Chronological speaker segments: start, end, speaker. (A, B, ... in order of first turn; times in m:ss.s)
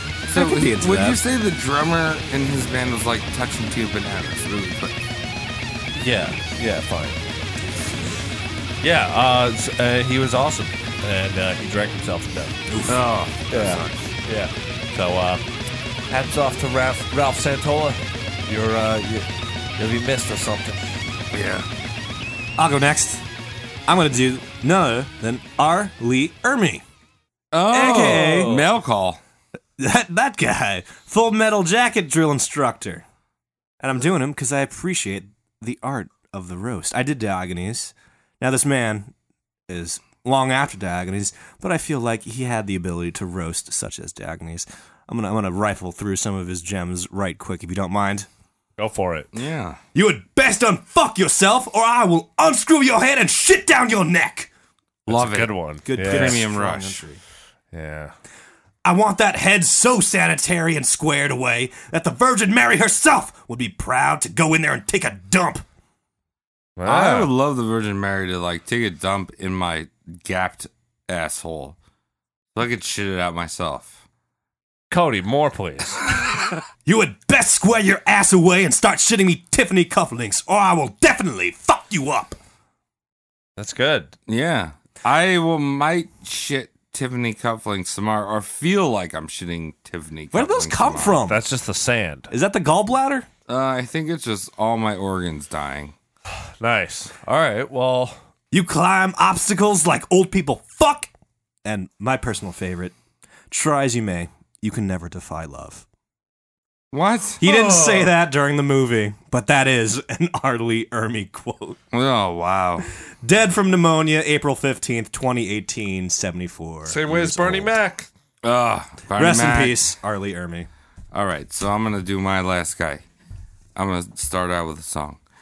0:00.3-0:04.9 A
0:00.3-0:01.2 B
0:06.0-0:07.2 C
0:08.8-0:12.7 C
0:12.7-0:13.0 B
0:12.9-0:14.1 A
0:13.5-0:15.4 C
0:16.1-0:19.3 C
0:19.8-0:20.9 C
0:21.3-0:21.7 A
0:22.6-0:23.2 B
0:23.9-0:26.8 B
0:27.5-0:29.2 A
0:27.7-0:28.6 B
0:27.8-0:28.7 C
0:29.8-0:33.0 B
0:33.8-0:39.1 B
0:39.7-0:48.3 B
0:48.8-0:49.3 C
0:49.3-0:49.8 A
0:49.9-0:54.5 B
0:55.1-0:57.0 A
0:55.1-0:56.5 C
0:55.9-0:57.2 B
0:57.7-0:58.1 C
0:58.8-1:05.6 B
1:06.8-1:07.3 C
1:06.8-1:11.8 A
1:12.6-1:13.9 A
1:14.9-1:16.0 C
1:16.8-1:22.4 B
1:23.6-1:24.2 C
1:24.3-1:31.2 A
1:30.3-1:31.4 B
1:31.3-1:32.3 C
1:32.3-1:33.3 B
1:33.5-1:35.9 A
1:36.6-1:38.2 C
1:38.5-1:41.1 B
1:41.6-1:43.0 B
1:43.5-1:45.9 B
1:46.9-1:47.7 A
1:47.4-1:51.8 B
1:51.9-1:52.9 A
1:53.2-1:57.7 B
1:56.9-1:58.1 C
1:58.4-1:59.8 A
1:59.2-2:00.7 B
2:01.1-2:03.0 A
2:03.8-2:05.2 A